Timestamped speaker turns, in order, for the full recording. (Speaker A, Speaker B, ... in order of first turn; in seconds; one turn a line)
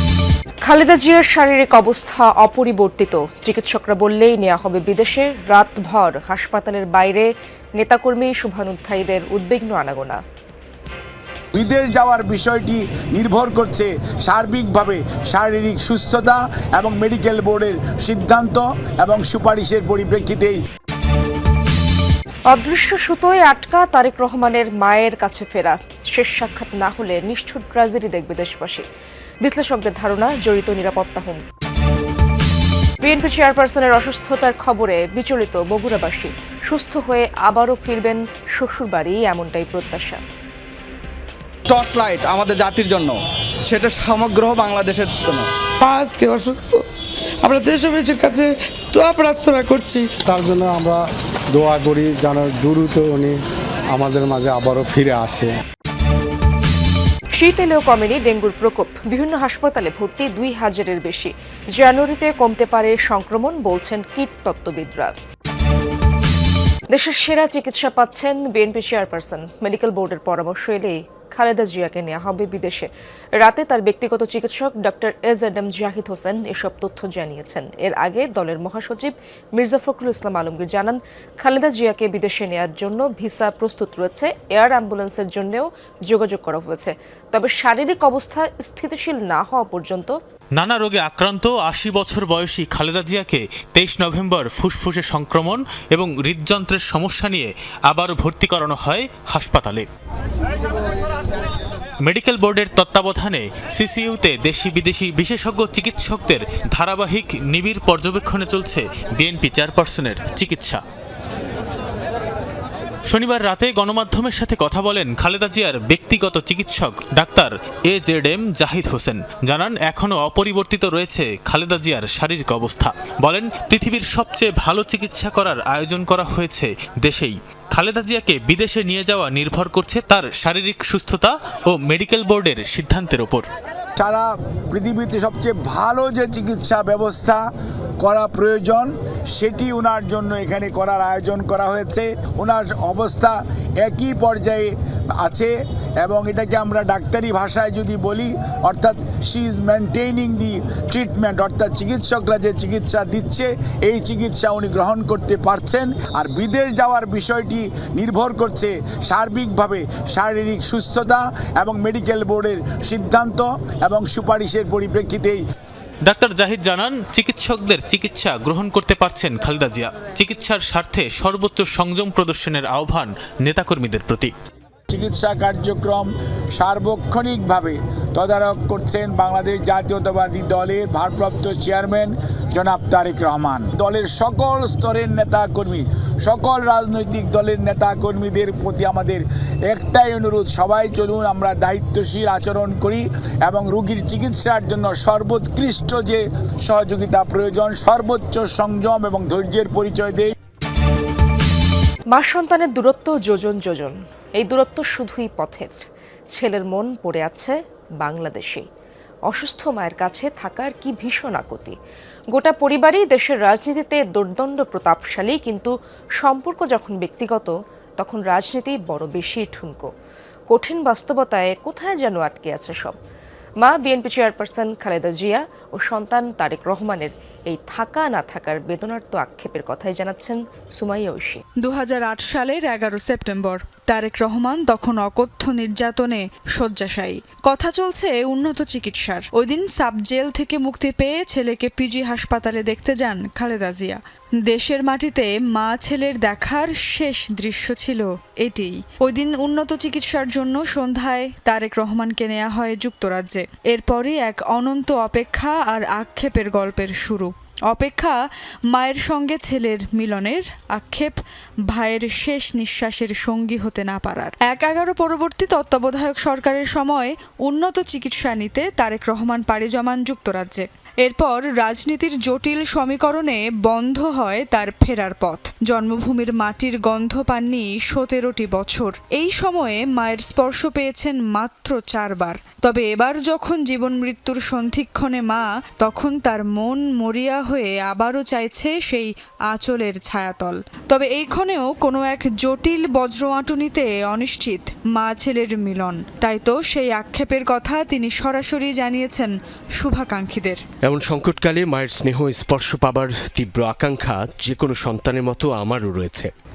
Speaker A: 0.6-10.2
Speaker B: 11.5-20.6
Speaker A: 22.5-28.8
Speaker A: 29.4-31.4
Speaker A: 33.0-40.2
Speaker C: 41.8-43.1
Speaker C: 43.7-45.3
Speaker D: 45.8-46.8
Speaker D: 47.4-50.1
Speaker E: 50.2-53.4
Speaker E: 53.9-55.6
Speaker A: 57.4-65.2
Speaker A: 66.9-90.2
Speaker F: 90.6-99.9
Speaker F: 102.0-110.8
Speaker F: 113.1-133.5
Speaker B: 134.0-137.4
Speaker B: 138.0-144.7
Speaker B: 145.2-145.5
Speaker B: 146.0-165.4
Speaker F: 166.1-174.3
Speaker B: 174.9-200.3
Speaker A: 202.1-205.8
Speaker A: 206.3-208.7
Speaker A: 209.3-211.8
Speaker A: 212.3-219.9
Speaker A: 220.5-223.0
Speaker A: 223.6-231.4
Speaker G: 231.6-258.2
Speaker G: 258.7-261.2
Speaker G: 261.7-300.6
Speaker H: 300.8-306.3